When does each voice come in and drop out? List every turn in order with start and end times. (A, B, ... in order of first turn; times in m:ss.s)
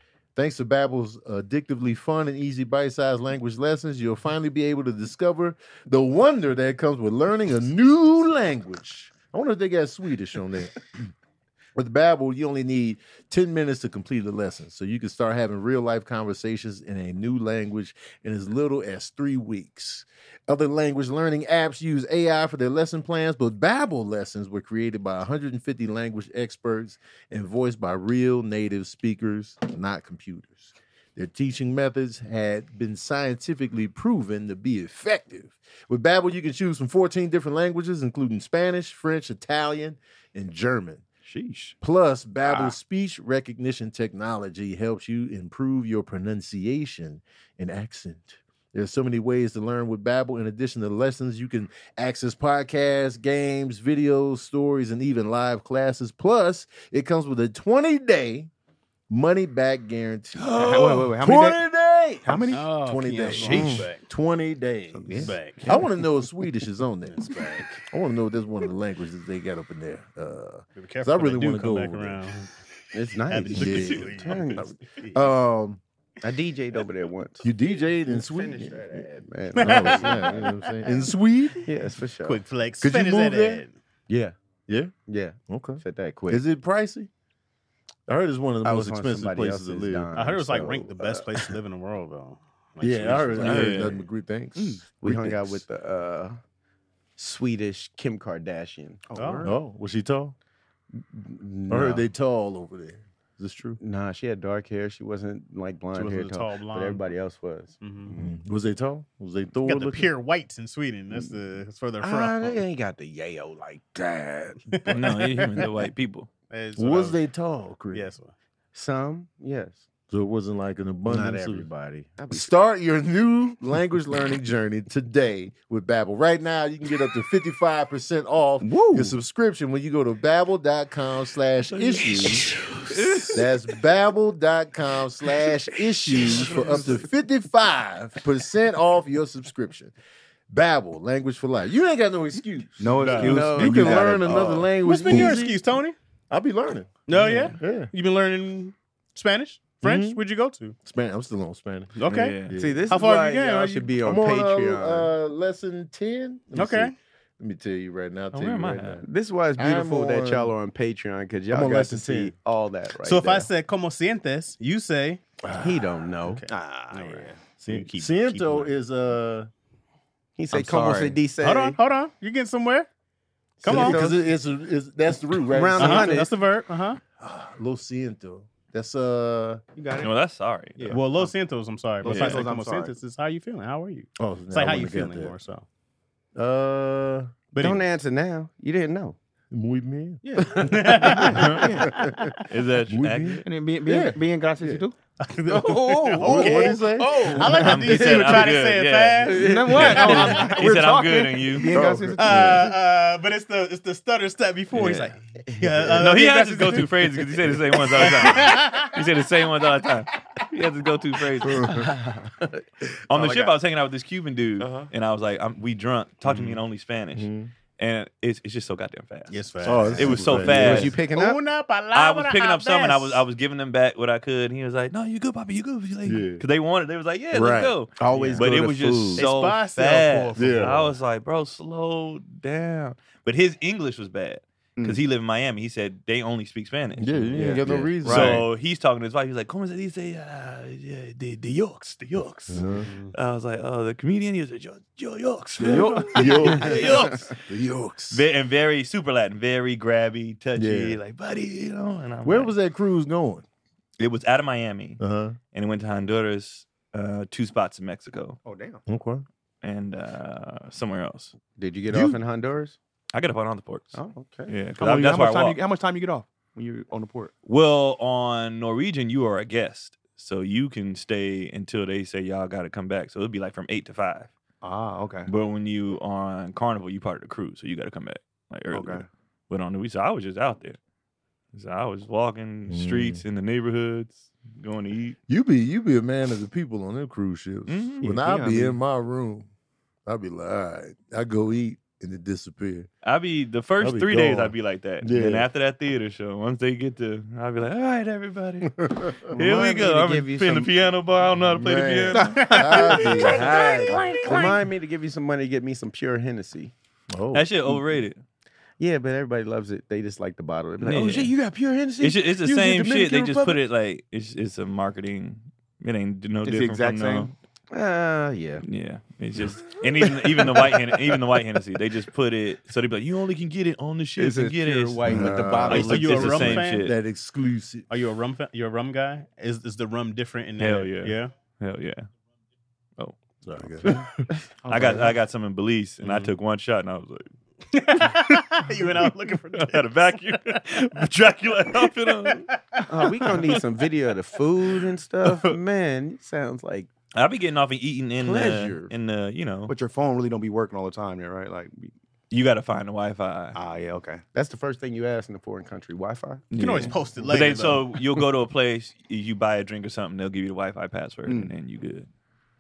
0:00.4-0:11.0 A
0:11.8-0:41.0 A
0:41.2-0:41.8 B
0:41.8-0:58.5 A
0:59.1-1:12.2 A
1:00.4-1:01.6 B
1:02.2-1:03.9 B
1:02.5-1:04.0 C
1:04.9-1:05.9 B
1:05.2-1:05.7 C
1:07.1-1:07.8 C
1:10.8-1:12.5 C
1:12.9-1:14.8 D
1:13.3-1:15.2 C
1:13.5-1:14.2 A
1:15.1-1:15.8 A
1:16.2-1:17.5 D
1:17.4-1:21.7 A
1:18.1-1:20.4 D
1:19.6-1:20.6 C
1:21.6-1:22.4 D
1:22.2-1:23.7 C
1:22.8-1:23.6 A
1:24.1-1:24.4 D
1:25.1-1:26.4 D
1:25.5-1:27.1 A
1:28.1-1:30.1 A
1:28.6-1:31.5 D
1:30.1-1:33.9 C
1:32.8-1:35.6 A
1:33.4-1:34.0 E
1:34.6-1:34.8 B
1:35.0-1:36.4 D
1:37.2-1:39.1 D
1:39.1-1:39.5 B
1:39.2-1:39.5 C
1:39.4-1:40.4 A
1:41.0-1:42.0 D
1:41.7-1:43.8 A
1:43.8-1:48.3 D
1:45.9-1:47.0 C
1:47.8-1:48.1 C
1:48.2-1:50.1 A
1:49.7-1:52.6 C
1:52.0-1:55.0 D
1:54.7-1:55.7 C
1:54.9-1:56.3 E
1:56.5-1:57.2 C
1:56.8-1:58.1 A
1:57.9-1:58.3 C
1:58.7-1:59.8 D
2:00.1-2:01.7 A
2:01.1-2:02.5 D
2:02.3-2:12.5 A
2:08.6-2:09.2 B
2:11.7-2:13.4 E
2:13.2-2:19.9 A
2:16.1-2:17.0 E
2:20.5-2:25.8 A
2:22.8-2:24.6 B
2:23.0-2:23.4 C
2:23.2-2:25.4 D
2:24.8-2:26.0 C
2:26.3-2:27.0 A
2:27.1-2:30.8 C
2:27.1-2:27.6 E
2:27.6-2:27.9 A
2:29.8-2:30.2 A
2:30.8-2:32.9 A
2:32.0-2:33.9 C
2:32.0-2:32.6 E
2:32.5-2:35.1 D
2:34.0-2:39.1 A
2:36.5-2:36.9 C
2:38.3-2:39.0 E
2:39.0-2:43.5 D
2:39.6-2:40.5 A
2:41.5-2:42.3 A
2:43.0-2:45.2 C
2:45.5-2:46.4 D
2:46.3-2:48.7 C
2:46.5-2:47.4 B
2:47.6-2:49.5 A
2:50.4-2:51.8 D
2:50.5-2:51.2 B
2:51.4-2:52.9 C
2:53.6-2:54.2 D
2:53.6-2:54.0 C
2:53.7-2:56.2 A
2:55.5-2:56.3 D
2:55.8-2:57.0 C
2:57.2-2:59.6 A
2:59.8-3:00.1 B
3:00.0-3:01.0 E
3:00.8-3:01.3 B
3:00.9-3:05.6 C
3:02.0-3:03.0 B
3:02.0-3:02.4 E
3:04.2-3:05.3 A
3:06.4-3:07.3 A
3:07.5-3:07.8 C
3:07.6-3:09.2 D
3:09.5-3:14.8 A
3:10.3-3:12.1 B
3:10.3-3:11.3 D
3:10.6-3:11.5 C
3:12.5-3:13.4 E
3:13.4-3:15.0 B
3:15.2-3:20.6 C
3:15.5-3:18.6 D
3:16.2-3:17.4 A
3:17.6-3:21.7 E
3:19.2-3:20.5 D
3:19.4-3:22.7 B
3:21.6-3:22.7 A
3:22.2-3:29.0 C
3:24.7-3:25.1 E
3:25.5-3:26.1 D
3:26.0-3:31.7 E
3:31.4-3:31.9 A
3:31.6-3:32.6 D
3:33.1-3:40.9 E
3:33.2-3:33.5 B
3:34.6-3:34.9 B
3:37.2-3:37.5 A
3:39.3-3:43.2 C
3:39.6-3:40.9 A
3:40.4-3:41.4 D
3:41.9-3:57.4 E
3:46.0-3:46.4 A
3:47.3-3:47.8 A
3:48.0-3:49.3 D
3:48.2-3:48.5 C
3:49.1-3:50.8 C
3:50.4-3:50.9 A
3:57.0-3:58.5 A
3:57.3-3:58.4 B
3:57.6-3:57.9 D
3:58.0-4:07.4 E
4:02.5-4:02.9 A
4:02.8-4:03.1 C
4:05.6-4:06.8 B
4:05.6-4:08.3 A
4:06.7-4:07.2 D
4:08.1-4:12.5 E
4:10.6-4:11.0 A
4:12.2-4:13.4 A
4:14.0-4:15.0 E
4:15.0-4:15.4 A
4:15.5-4:18.4 E
4:18.4-4:18.8 B
4:18.9-4:19.2 A
4:19.6-4:21.3 E
4:21.6-4:22.8 D
4:23.1-4:25.6 E
4:23.9-4:24.5 D
4:24.8-4:27.3 B
4:27.4-4:34.3 E
4:34.6-4:35.3 B
4:35.3-4:40.8 E
4:38.7-4:39.1 B
4:41.5-4:45.2 E
4:42.7-4:43.2 A
4:45.3-4:49.5 A
4:47.7-4:48.1 E
4:48.0-4:48.8 B
4:50.1-4:52.9 A
4:53.0-5:02.5 E
4:53.8-4:55.5 A
4:58.7-4:59.3 A
4:59.3-5:00.8 D
5:01.4-5:04.2 A
5:02.1-5:04.5 B
5:02.3-5:03.2 C
5:03.2-5:06.7 D
5:07.1-5:07.8 A
5:07.3-5:08.2 E
5:08.8-5:13.6 D
5:10.8-5:11.3 E
5:12.0-5:17.3 E
5:16.4-5:17.3 B
5:17.7-5:18.6 D
5:18.6-5:26.9 E
5:20.2-5:20.8 D
5:24.2-5:26.6 D
5:25.0-5:27.9 A
5:25.7-5:26.9 C
5:27.9-5:31.3 C
5:30.6-5:32.1 E
5:33.0-5:34.0 E
5:33.4-5:34.3 A
5:34.6-5:35.2 B
5:34.7-5:37.3 E
5:36.0-5:36.3 C
5:37.7-5:40.6 C
5:39.0-5:42.5 E
5:41.8-5:43.6 C
5:42.9-5:46.9 D
5:43.2-5:43.6 E
5:47.2-5:49.7 E
5:48.2-5:48.9 D
5:49.7-5:51.9 B
5:52.3-5:53.6 E
5:53.6-5:54.2 B
5:54.3-5:56.5 D
5:56.5-6:02.1 E
5:56.5-5:58.0 C
6:01.3-6:01.6 B